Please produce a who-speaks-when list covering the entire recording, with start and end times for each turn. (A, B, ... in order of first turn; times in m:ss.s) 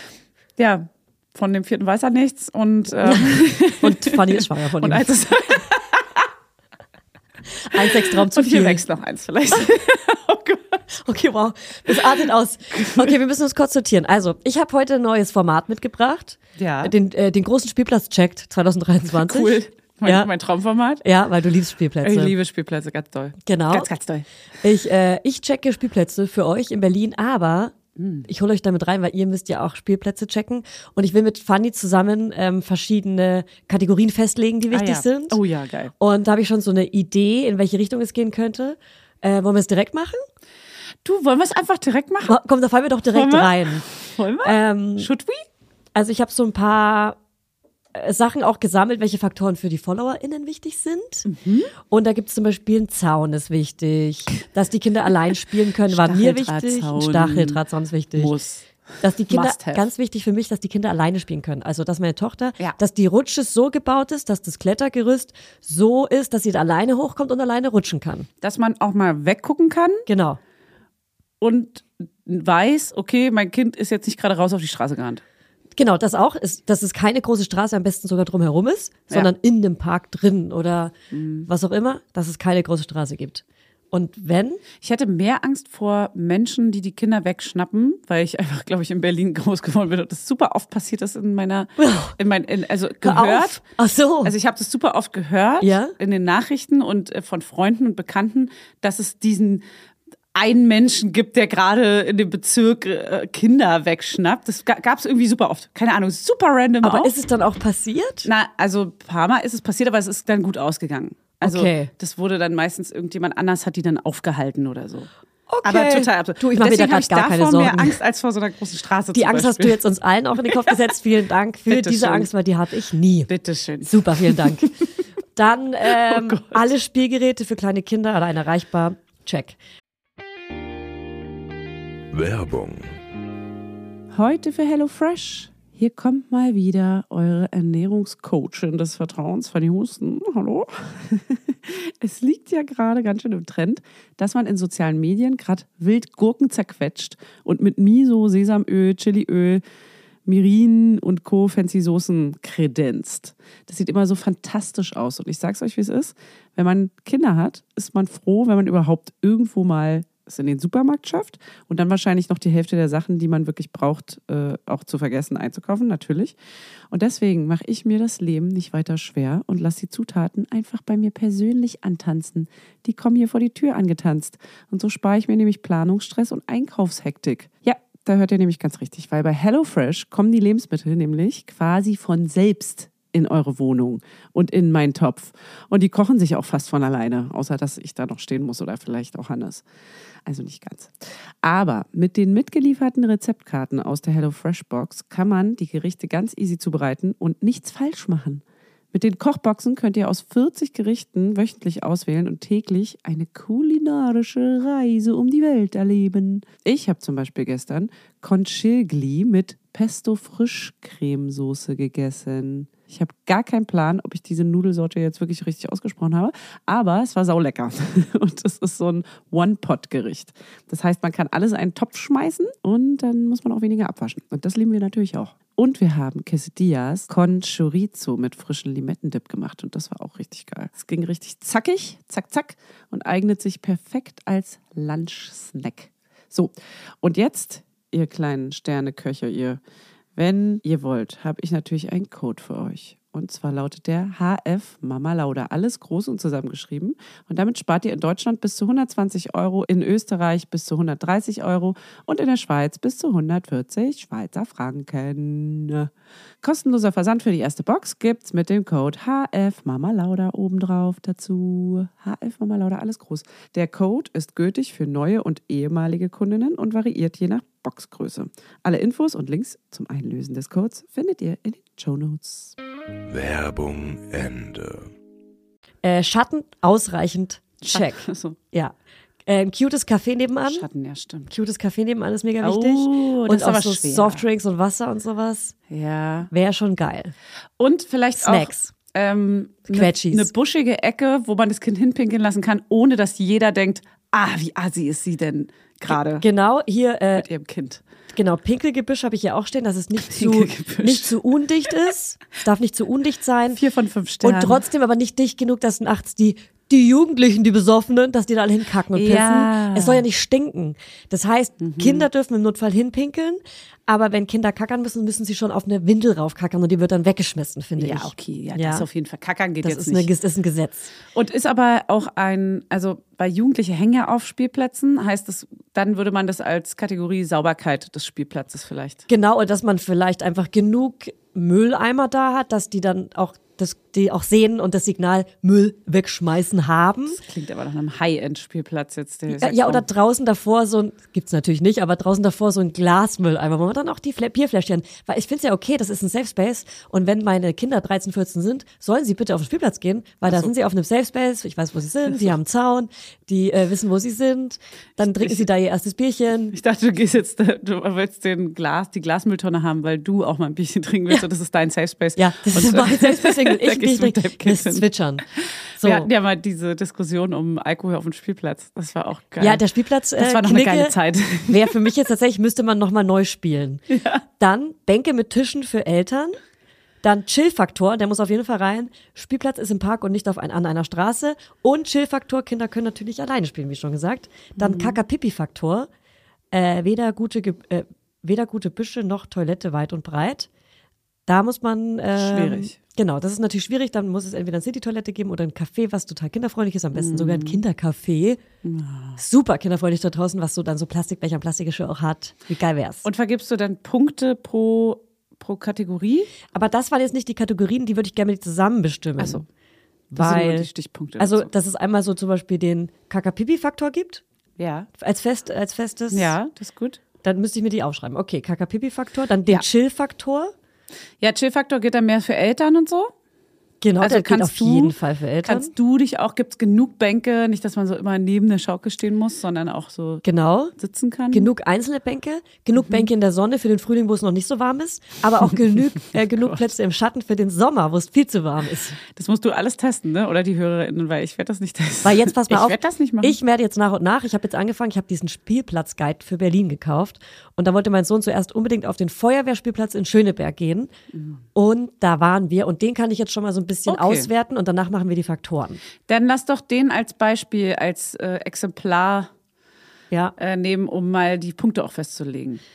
0:00.6-0:06.3 A
0:03.0-0:05.1 B
0:07.6-0:08.8 B
0:07.8-0:10.8 A
0:10.9-0:20.3 B
0:12.7-0:13.2 A
0:16.6-0:16.9 A
0:19.2-0:21.0 A
0:21.0-0:22.3 B
0:22.0-0:24.3 A
0:23.5-0:23.9 B
0:24.6-0:27.7 B
0:28.0-0:28.3 A
0:28.3-0:35.4 B
0:34.7-0:35.9 A
0:36.0-0:40.2 B
0:41.0-0:42.4 A
0:42.3-0:43.8 B
0:43.1-0:45.4 A
0:44.4-0:45.1 B
0:46.0-0:47.2 B
0:47.9-0:51.3 B
0:51.3-0:51.7 A
0:51.9-0:58.3 B
0:55.9-0:57.6 A
0:58.2-0:58.7 A
0:59.0-1:08.3 B
0:59.3-0:59.9 A
1:08.4-1:10.0 A
1:10.1-1:10.4 B
1:11.4-1:15.2 A
1:15.8-1:20.9 B
1:21.1-1:21.5 A
1:21.5-1:24.6 B
1:24.8-1:33.6 A
1:31.8-1:32.2 B
1:33.0-1:34.3 B
1:34.2-1:39.6 A
1:35.6-1:35.9 B
1:40.4-1:47.1 A
1:46.8-1:48.3 B
1:48.2-1:55.1 A
1:51.4-1:51.9 B
1:55.5-1:58.0 B
1:55.6-1:59.8 A
1:59.1-2:03.3 B
2:00.5-2:00.7 A
2:01.7-2:02.3 A
2:03.3-2:04.7 A
2:03.8-2:04.7 B
2:05.4-2:09.6 B
2:05.9-2:06.7 A
2:12.1-2:13.0 C
2:14.1-2:29.6 A
2:30.3-2:46.4 A
2:46.9-3:09.6 A
3:10.3-3:10.9 A
3:11.4-3:18.4 A
3:18.9-3:59.6 A
4:00.2-4:15.9 A
4:16.4-4:32.5 A
4:33.1-4:34.9 C
4:35.8-4:38.8 B
4:37.6-4:38.4 A
4:39.3-4:40.6 B
4:40.4-4:41.3 A
4:41.3-4:45.6 B
4:42.4-4:44.2 A
4:45.7-4:46.3 A
4:46.3-4:47.1 B
4:47.6-4:56.2 A
4:48.2-4:48.7 B
4:49.7-4:50.3 B
4:55.9-4:57.3 B
4:57.2-4:57.8 A
4:58.1-5:03.6 B
5:00.0-5:01.2 A
5:03.6-5:04.6 A
5:04.2-5:18.9 B
5:08.9-5:10.0 A
5:11.6-5:12.1 A
5:17.8-5:20.1 A
5:19.6-5:20.9 B
5:21.1-5:29.0 A
5:29.1-5:37.2 B
5:37.2-5:39.8 A
5:39.3-5:56.6 B
5:56.5-6:09.6 A
6:02.2-6:05.2 B
6:05.8-6:06.1 B
6:09.4-6:11.0 B
6:10.2-6:11.9 A
6:11.5-6:13.8 B
6:13.9-6:14.2 A
6:14.4-6:16.4 B
6:17.0-6:25.9 B
6:24.6-6:25.0 A
6:26.5-6:30.5 B
6:31.3-6:38.4 B
6:32.2-6:32.8 A
6:36.9-6:37.6 A
6:38.6-6:39.2 A
6:39.2-6:43.0 B
6:43.0-6:46.3 A
6:46.5-6:49.4 B
6:49.2-6:49.4 A
6:50.1-6:50.7 B
6:50.2-6:51.5 A
6:51.2-6:54.2 B
6:54.6-6:54.9 A
6:55.0-6:56.4 B
6:56.1-6:57.0 A
6:57.2-7:00.5 B
7:01.2-7:03.1 A
7:03.8-7:05.7 B
7:04.0-7:10.2 A
7:10.2-7:10.7 B
7:10.8-7:11.5 A
7:11.3-7:19.0 B
7:12.8-7:13.1 A
7:16.4-7:16.7 A
7:19.1-7:23.4 A
7:22.0-7:30.9 B
7:31.1-7:31.4 A
7:31.6-7:35.8 B
7:33.9-7:34.3 A
7:36.1-7:39.3 A
7:40.4-7:42.6 A